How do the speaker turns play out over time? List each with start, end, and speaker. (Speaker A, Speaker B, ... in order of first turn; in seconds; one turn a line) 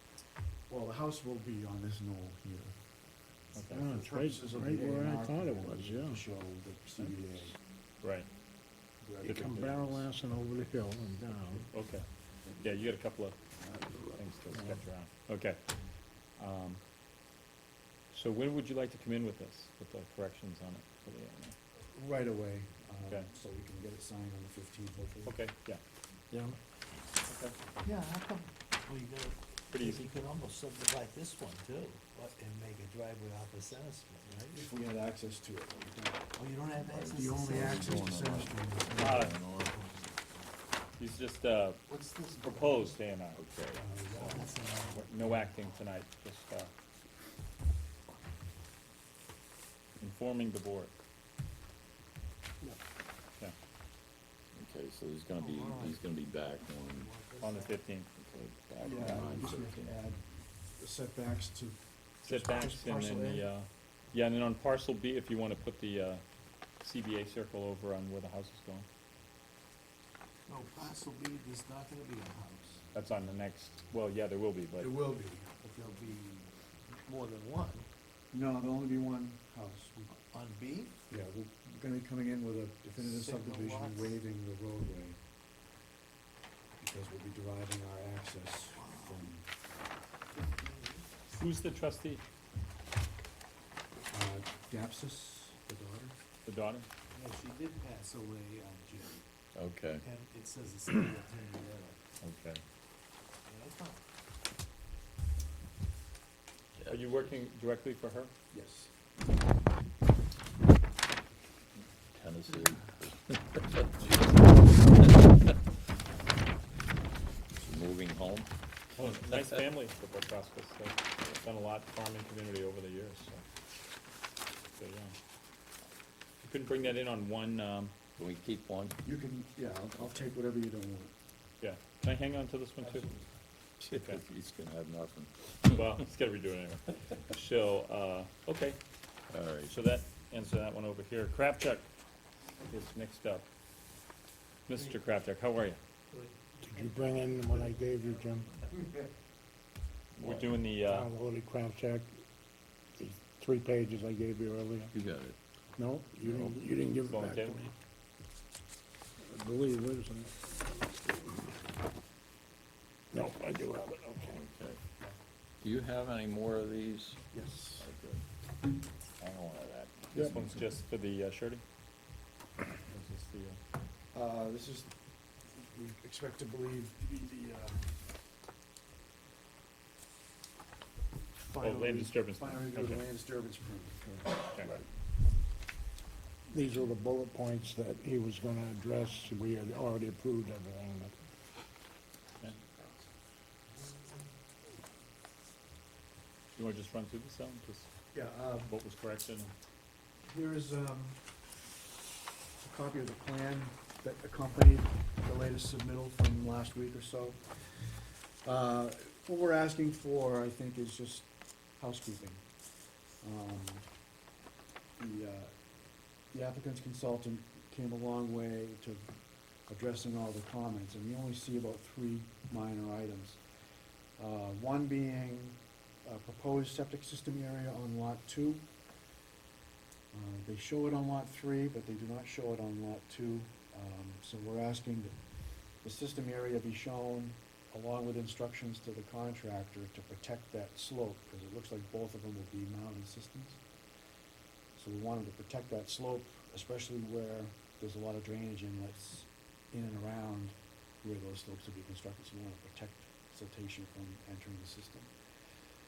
Speaker A: 0.7-2.8
Speaker B: 3.5-3.9
Speaker C: 3.7-6.2
Speaker A: 3.9-7.6
Speaker B: 8.0-8.3
Speaker A: 9.0-10.1
Speaker C: 9.2-11.7
Speaker B: 9.4-9.7
Speaker B: 11.7-13.4
Speaker B: 14.1-15.6
Speaker C: 14.5-14.8
Speaker B: 16.4-16.8
Speaker B: 18.1-21.6
Speaker A: 21.9-25.4
Speaker B: 25.2-25.8
Speaker B: 27.3-27.5
Speaker D: 27.8-34.6
Speaker B: 29.7-30.1
Speaker A: 34.5-36.3
Speaker D: 36.4-38.1
Speaker E: 36.8-39.8
Speaker A: 37.1-39.4
Speaker B: 39.0-39.4
Speaker D: 39.7-40.2
Speaker B: 41.0-41.9
Speaker D: 41.9-43.0
Speaker B: 42.4-43.4
Speaker E: 43.4-43.8
Speaker A: 43.8-44.6
Speaker D: 44.1-45.5
Speaker B: 44.1-46.7
Speaker B: 50.0-51.0
Speaker E: 54.5-57.1
Speaker D: 55.4-56.0
Speaker D: 57.0-57.8
Speaker B: 57.4-58.2
Speaker E: 58.2-59.9
Speaker A: 58.8-63.5
Speaker B: 62.2-66.2
Speaker B: 66.8-68.9
Speaker D: 70.5-72.8
Speaker B: 72.9-75.0
Speaker A: 74.8-75.5
Speaker D: 75.6-77.9
Speaker A: 78.3-80.0
Speaker D: 80.0-81.0
Speaker A: 81.1-85.2
Speaker D: 83.0-84.2
Speaker A: 86.8-89.5
Speaker D: 88.8-89.3
Speaker D: 90.3-91.1
Speaker B: 91.3-92.2
Speaker A: 94.1-96.2
Speaker B: 96.5-96.9
Speaker D: 97.1-99.2
Speaker E: 99.5-100.0
Speaker D: 100.0-102.0
Speaker B: 102.2-102.6
Speaker D: 103.5-104.0
Speaker E: 106.8-107.3
Speaker B: 106.9-108.3
Speaker A: 108.5-108.9
Speaker E: 112.1-115.1
Speaker E: 117.6-118.5
Speaker B: 119.0-123.4
Speaker B: 124.8-125.1
Speaker B: 126.4-128.0
Speaker E: 128.2-129.0
Speaker A: 129.0-131.1
Speaker B: 131.6-133.1
Speaker A: 132.8-133.2
Speaker E: 133.8-135.8
Speaker B: 134.0-134.2
Speaker B: 135.7-138.8
Speaker E: 139.3-139.8
Speaker B: 139.7-141.9
Speaker B: 142.7-143.5
Speaker B: 144.7-145.8
Speaker D: 144.8-145.0
Speaker C: 146.6-148.5
Speaker E: 150.2-150.7
Speaker B: 150.2-151.1
Speaker C: 150.8-152.1
Speaker C: 153.0-154.9
Speaker E: 154.9-155.4
Speaker C: 155.8-157.7
Speaker E: 156.2-156.6
Speaker B: 157.0-157.6
Speaker C: 159.2-161.3
Speaker C: 163.1-164.4
Speaker E: 164.3-164.8
Speaker E: 165.6-167.2
Speaker A: 167.3-167.9
Speaker E: 167.8-168.2
Speaker E: 169.2-170.6
Speaker C: 170.1-170.5
Speaker B: 170.2-171.6
Speaker B: 172.9-173.6
Speaker A: 174.1-174.9
Speaker A: 175.6-177.9
Speaker A: 181.4-184.9
Speaker B: 181.6-183.1
Speaker B: 184.4-184.8
Speaker C: 186.5-191.1
Speaker B: 196.6-197.9
Speaker A: 198.1-198.7
Speaker B: 198.6-199.5
Speaker A: 200.3-201.2
Speaker A: 202.6-207.4
Speaker A: 208.4-212.4
Speaker A: 213.2-213.8
Speaker A: 215.0-215.5
Speaker A: 216.3-219.1
Speaker A: 219.7-223.4
Speaker A: 224.2-228.7
Speaker A: 230.1-235.1
Speaker A: 235.8-243.6
Speaker A: 244.8-255.1